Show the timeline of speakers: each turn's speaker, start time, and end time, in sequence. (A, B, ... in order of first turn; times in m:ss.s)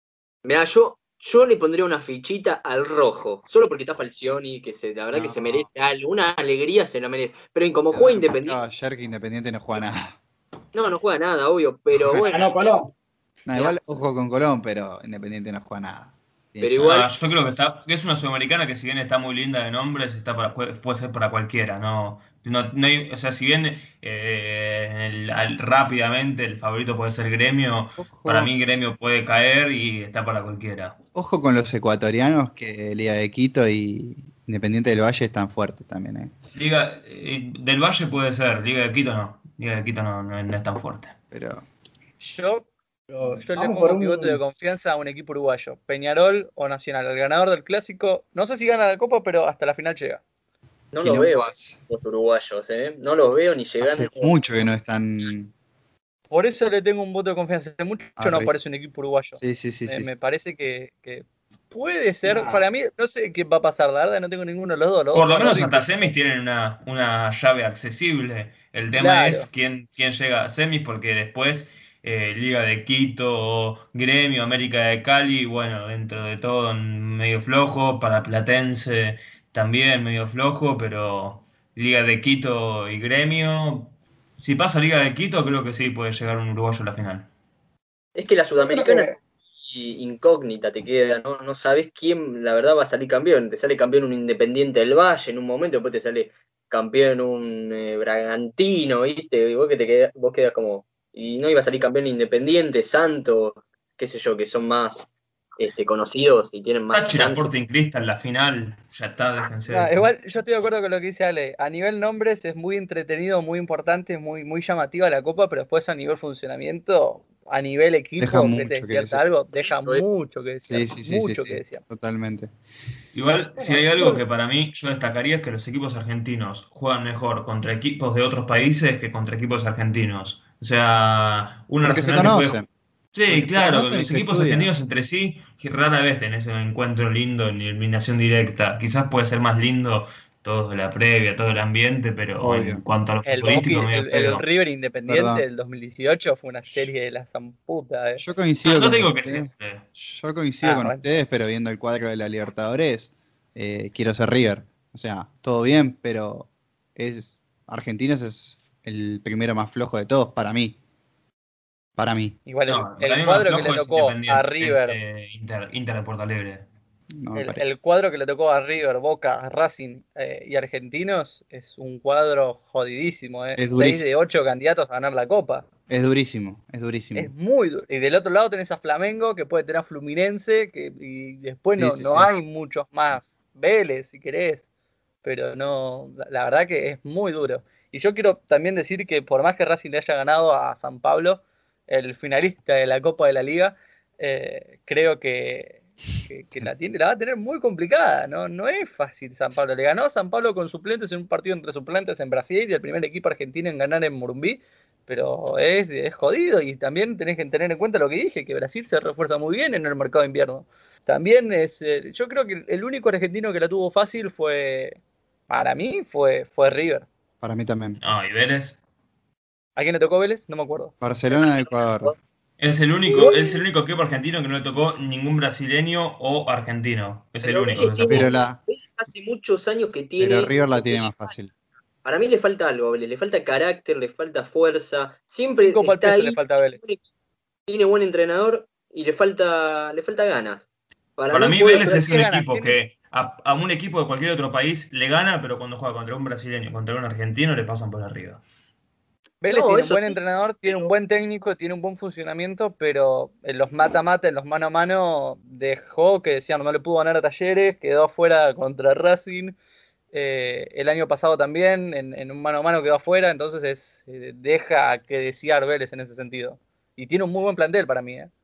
0:00.4-0:08.6 A
0:05.1-0:05.7 B
0:07.9-0:10.2 B
0:10.7-0:12.5 A
0:12.0-0:12.2 B
0:12.2-0:12.9 C
0:13.5-0:16.8 B
0:16.6-0:17.1 A
0:16.8-0:31.0 D
0:28.0-0:28.5 B
0:31.1-0:36.3 B
0:36.5-0:41.1 D
0:41.3-0:41.6 B
0:42.2-0:42.7 E
0:43.1-0:44.4 C
0:43.3-0:50.2 E
0:50.9-0:54.3 A
0:51.0-0:51.8 B
0:53.8-0:55.5 B
0:56.3-1:06.1 E
0:58.2-0:58.5 B
0:59.4-1:00.1 B
1:02.2-1:02.6 C
1:05.1-1:27.3 D
1:08.9-1:09.5 E
1:28.1-1:47.5 A
1:28.6-1:29.1 C
1:46.9-1:50.1 D
1:49.7-2:01.8 E
1:58.2-1:59.2 B
1:59.6-2:00.0 A
2:00.6-2:02.5 B
2:03.1-2:12.6 D
2:03.6-2:04.2 C
2:11.8-2:12.7 B
2:13.1-2:24.4 D
2:13.3-2:14.7 B
2:22.4-2:22.8 B
2:23.2-2:28.2 E
2:25.0-2:25.4 B
2:28.2-2:40.8 B
2:28.6-2:29.8 D
2:30.6-2:31.0 E
2:42.0-2:42.4 B
2:42.5-2:45.0 E
2:42.7-2:46.7 D
2:47.1-2:47.8 B
2:47.3-2:55.6 E
2:53.6-2:54.0 B
2:55.9-2:57.3 B
2:57.1-3:04.6 E
3:01.7-3:02.3 B
3:05.2-3:35.0 E
3:35.5-3:37.1 E
3:37.4-3:38.0 B
3:38.0-3:38.8 D
3:39.8-3:40.9 E
3:41.0-3:42.1 B
3:41.3-3:42.1 A
3:42.6-3:48.3 D
3:47.4-3:51.3 A
3:48.0-3:48.6 B
3:50.2-3:51.5 B
3:52.0-3:57.0 A
3:55.5-3:56.8 E
3:57.7-4:02.0 A
4:01.3-4:08.4 D
4:01.7-4:02.8 E
4:09.4-4:19.5 E
4:09.5-4:10.9 A
4:20.1-4:28.3 E